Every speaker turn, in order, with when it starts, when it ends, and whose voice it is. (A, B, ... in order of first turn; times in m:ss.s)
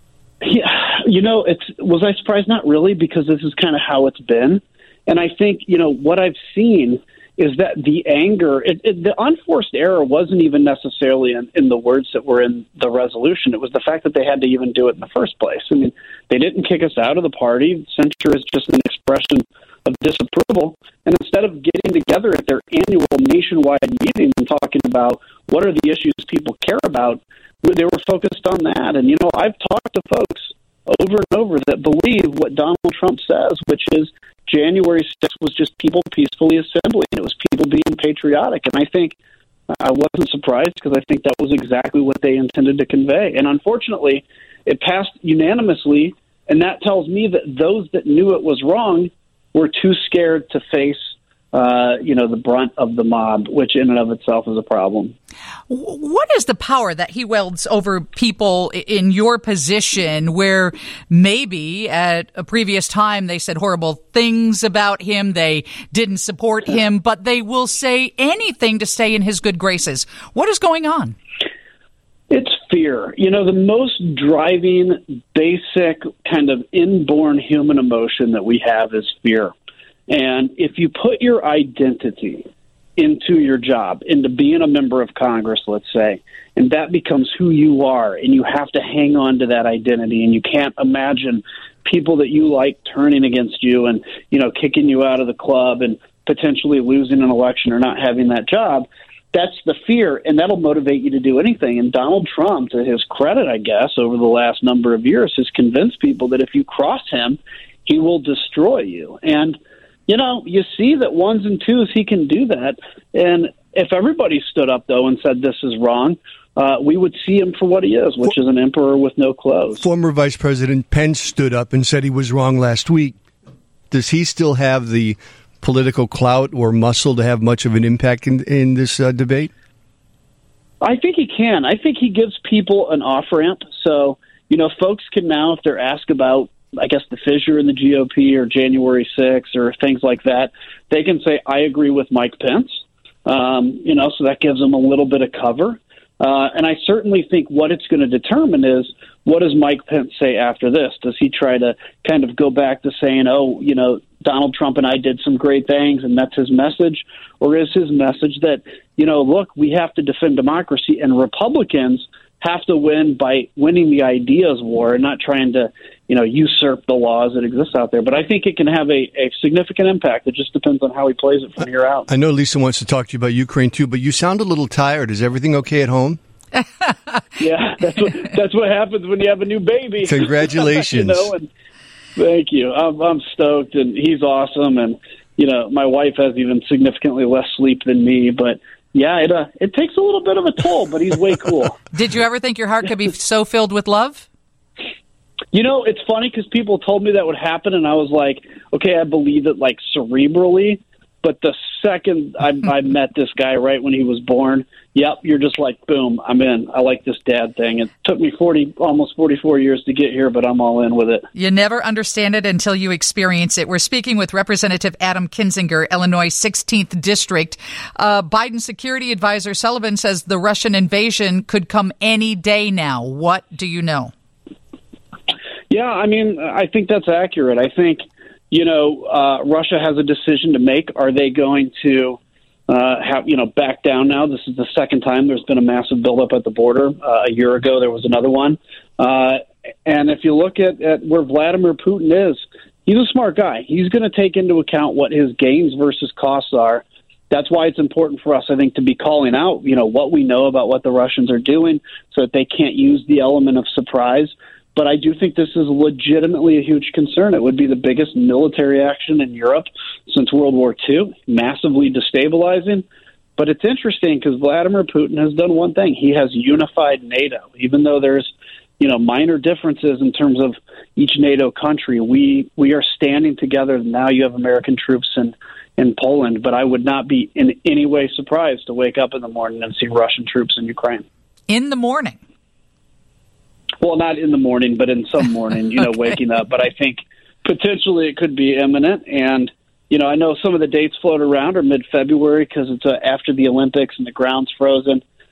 0:00.4-0:39.2 A
0:39.8-0:55.1 A
0:55.7-1:11.2 B
1:12.3-1:19.5 A
1:20.1-1:22.4 A
1:23.0-1:59.8 A
1:59.8-2:03.2 C
2:03.9-2:09.5 C
2:10.8-2:52.1 A
2:52.1-2:56.2 C
2:56.8-2:57.2 B
2:57.4-3:01.5 A
3:00.0-3:01.3 C
3:02.2-3:11.8 A
3:11.9-3:14.2 B
3:15.5-3:31.3 A
3:31.3-3:44.1 B
3:45.7-4:22.8 A
4:23.4-4:41.0 A
4:41.5-4:42.2 B
4:43.8-4:55.0 A